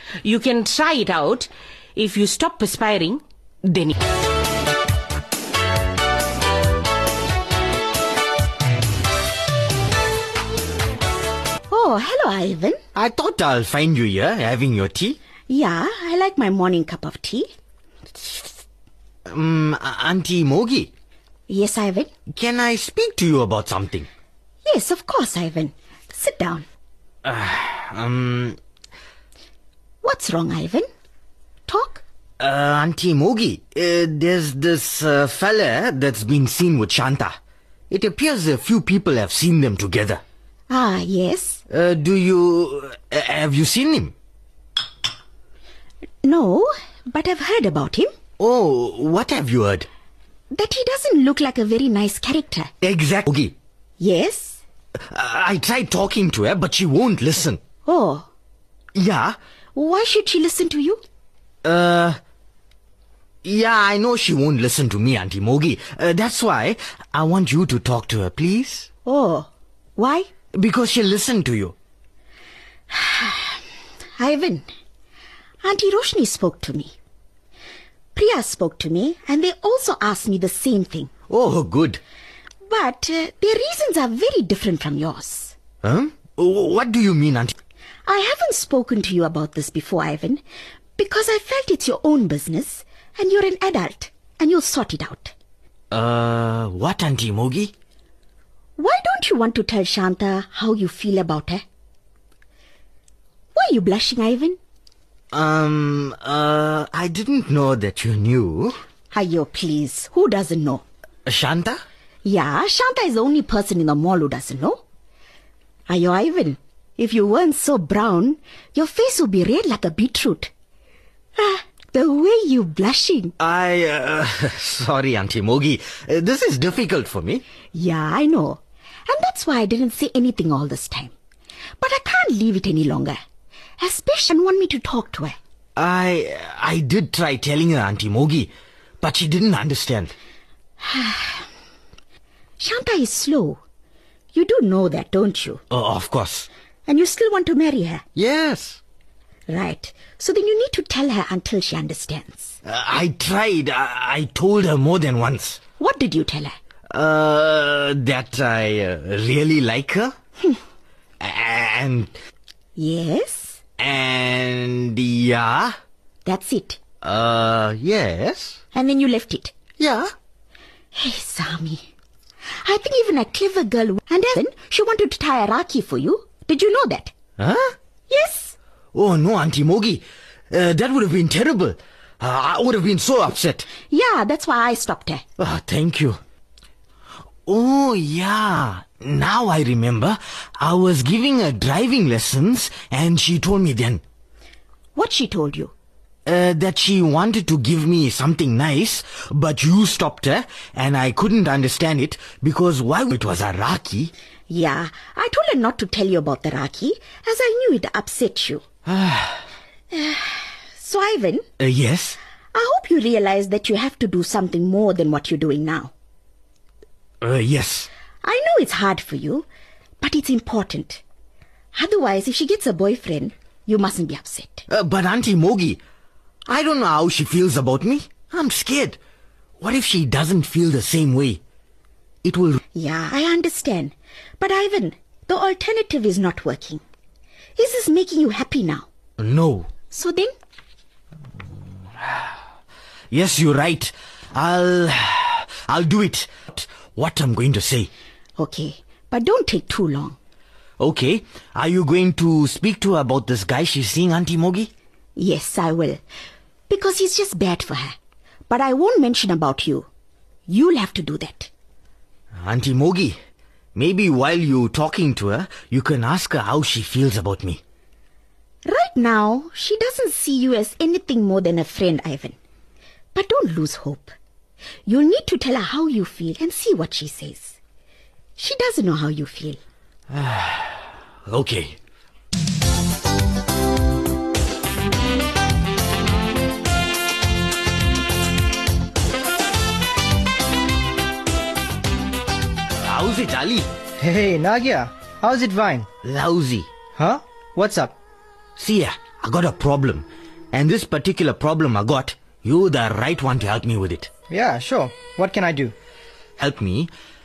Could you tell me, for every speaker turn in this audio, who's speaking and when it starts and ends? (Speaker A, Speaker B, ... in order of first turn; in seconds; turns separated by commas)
Speaker A: 0.2-3.9, Speaker B: 11.7-12.8, Speaker C: 13.0-15.2, Speaker B: 15.5-17.5, Speaker C: 19.3-20.9, Speaker B: 21.5-22.1, Speaker C: 22.3-24.1, Speaker B: 24.7-26.7, Speaker C: 27.2-28.6, Speaker B: 30.0-30.9, Speaker B: 31.7-32.0, Speaker C: 32.4-37.3, Speaker C: 37.9-40.2, Speaker B: 40.7-41.6, Speaker C: 41.7-44.1, Speaker B: 46.2-48.1, Speaker C: 48.4-49.9, Speaker B: 50.5-52.7, Speaker C: 52.8-53.5, Speaker B: 54.0-54.6, Speaker C: 55.1-57.6, Speaker B: 57.9-58.3, Speaker C: 58.9-59.4, Speaker B: 59.8-61.0, Speaker C: 61.6-62.2, Speaker C: 63.4-68.9, Speaker B: 69.1-70.3, Speaker C: 70.5-71.8, Speaker B: 72.9-73.6, Speaker B: 74.2-74.7, Speaker B: 75.6-76.9, Speaker B: 78.2-81.1, Speaker C: 81.3-82.0, Speaker B: 82.7-85.5, Speaker C: 85.8-87.5, Speaker B: 88.0-90.4, Speaker B: 91.0-95.3, Speaker C: 95.9-97.7, Speaker B: 98.8-101.6, Speaker B: 103.5-104.6, Speaker C: 105.3-108.8, Speaker B: 109.1-110.8, Speaker C: 111.3-111.8, Speaker B: 112.2-114.8, Speaker B: 115.9-120.5, Speaker B: 121.4-123.3, Speaker C: 123.4-127.4, Speaker B: 127.7-131.1, Speaker B: 131.8-133.2, Speaker B: 133.8-135.4, Speaker C: 135.8-138.5, Speaker C: 139.0-140.1, Speaker B: 140.8-141.5, Speaker B: 142.6-143.6, Speaker B: 144.3-145.6, Speaker C: 145.7-146.5, Speaker B: 146.9-148.0, Speaker C: 148.2-148.8, Speaker B: 149.5-152.5, Speaker C: 152.7-155.6, Speaker B: 155.8-156.5, Speaker C: 156.9-160.1, Speaker C: 161.2-162.1, Speaker B: 162.8-163.6, Speaker C: 163.8-165.7, Speaker B: 166.3-166.8, Speaker C: 167.0-168.6, Speaker B: 168.7-169.5, Speaker C: 169.8-170.1, Speaker B: 170.9-171.9, Speaker B: 172.7-177.1, Speaker C: 177.4-177.7, Speaker B: 178.1-178.5, Speaker C: 178.9-183.7, Speaker B: 183.9-185.2, Speaker C: 185.4-186.2, Speaker C: 187.5-194.0, Speaker B: 194.9-195.7, Speaker C: 196.3-204.1, Speaker B: 204.5-208.6, Speaker C: 208.8-209.4, Speaker B: 209.9-211.4, Speaker C: 211.6-212.2, Speaker B: 212.5-215.9, Speaker C: 217.2-217.9, Speaker B: 218.2-219.5, Speaker B: 220.0-221.0, Speaker B: 221.7-224.6, Speaker C: 224.7-225.8, Speaker C: 226.5-229.0, Speaker C: 229.6-231.4, Speaker C: 232.2-232.6, Speaker B: 232.7-236.8, Speaker B: 237.6-238.8, Speaker C: 239.2-239.7, Speaker B: 239.9-240.3, Speaker C: 243.1-247.9, Speaker B: 248.4-250.2, Speaker C: 250.8-254.7, Speaker B: 255.2-256.0, Speaker B: 256.7-257.9, Speaker B: 258.5-259.9, Speaker B: 260.5-261.5, Speaker C: 262.4-263.2, Speaker C: 263.8-267.6, Speaker B: 268.6-272.4, Speaker B: 273.1-274.1, Speaker B: 274.9-277.6, Speaker B: 278.4-279.6, Speaker C: 280.1-280.7, Speaker C: 281.3-281.8, Speaker C: 292.8-293.7, Speaker D: 294.0-295.9, Speaker C: 296.0-296.7, Speaker D: 297.0-297.9, Speaker C: 298.6-304.1, Speaker D: 304.3-305.7, Speaker C: 306.4-306.9